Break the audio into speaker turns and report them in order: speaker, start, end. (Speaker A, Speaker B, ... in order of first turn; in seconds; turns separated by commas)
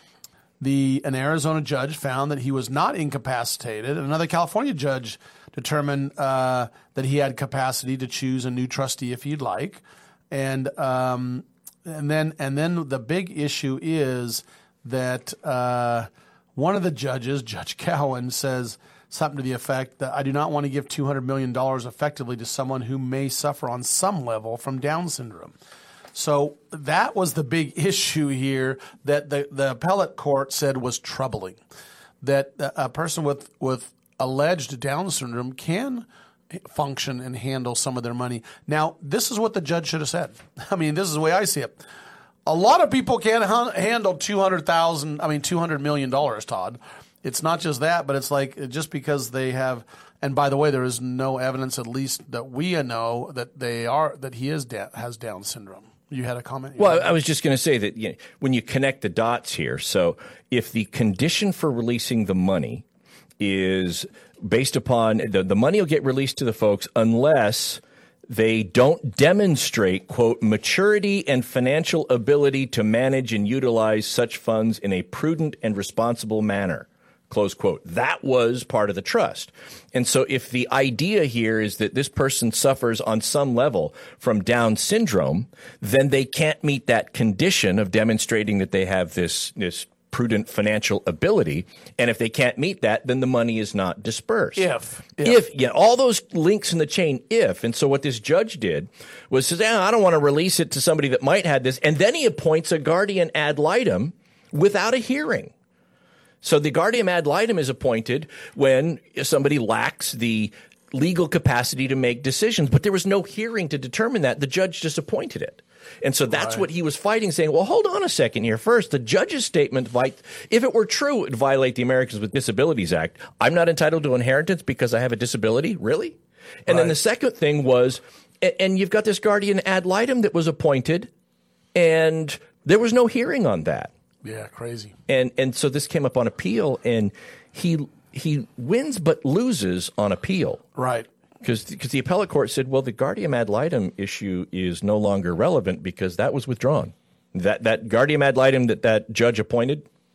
Speaker A: 0.6-25.5, Speaker A: 26.1-31.6, Speaker A: 32.2-41.8, Speaker A: 42.5-57.1, Speaker B: 56.8-62.8, Speaker B: 63.4-94.7, Speaker A: 94.5-95.4, Speaker B: 95.2-105.5, Speaker B: 106.4-131.1, Speaker A: 116.3-116.6, Speaker A: 126.7-127.0, Speaker B: 131.7-133.9, Speaker A: 134.2-134.9, Speaker B: 135.1-140.6, Speaker A: 140.7-141.1, Speaker B: 141.4-149.8